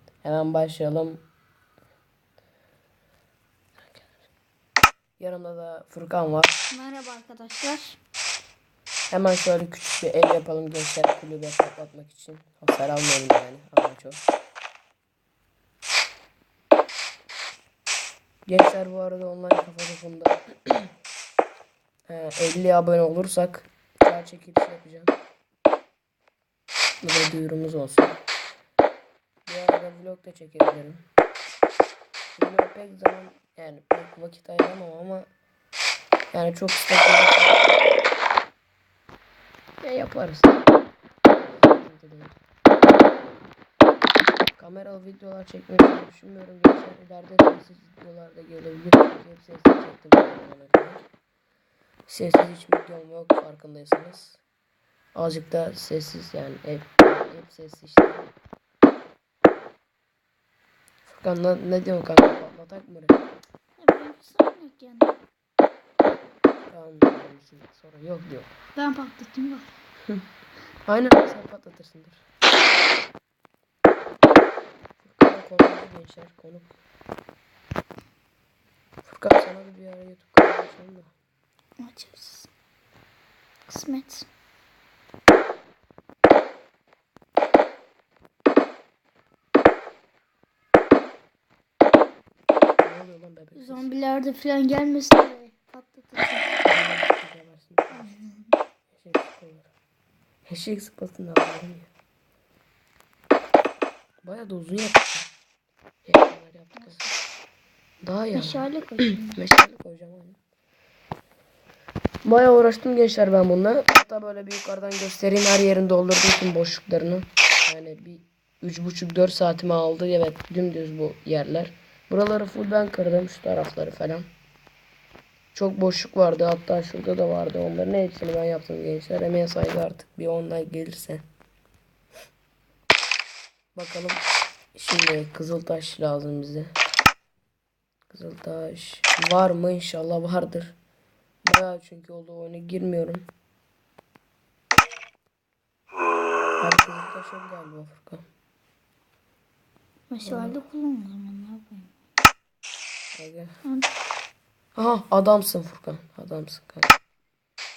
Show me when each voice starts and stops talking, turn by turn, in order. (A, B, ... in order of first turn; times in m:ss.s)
0:00.2-0:01.2 A
0:03.8-0:04.1 A
0:05.2-0:06.6 A
0:06.7-0:08.0 B
0:09.1-0:14.2 A
0:18.5-0:20.9 A
0:22.1-0:25.1 A
0:27.0-0:28.2 A
0:29.5-0:31.0 A
0:32.4-0:35.3 A
0:36.3-0:37.7 A
0:39.8-0:40.7 A
0:41.5-0:42.4 A
0:44.6-0:51.0 A
0:52.1-0:54.4 A
0:55.2-0:58.3 A
1:01.0-1:03.2 A
1:03.8-1:05.2 B
1:06.7-1:08.5 A
1:08.8-1:09.7 B
1:10.9-1:12.2 A
1:15.0-1:16.7 A
1:19.0-1:21.1 A
1:21.8-1:22.5 B
1:23.7-1:24.3 B
1:32.8-1:33.9 A
1:33.6-1:36.5 B
1:36.6-1:38.1 A
1:37.9-1:38.6 B
1:38.9-1:39.7 A
1:40.5-1:41.9 A
1:44.2-1:45.3 A
1:46.0-1:47.0 A
1:46.8-1:47.2 B
1:48.0-1:48.7 A
1:48.3-1:49.4 B
1:49.3-1:50.4 A
1:52.2-2:04.3 A
2:05.5-2:11.2 A
2:13.8-2:14.2 A
2:14.8-2:16.7 A
2:18.1-2:20.8 A
2:21.4-2:23.2 A
2:26.6-2:28.2 A
2:30.1-2:31.9 B
2:30.2-2:30.6 A
2:33.2-2:33.5 A
2:33.6-2:33.9 B
2:34.8-2:37.0 A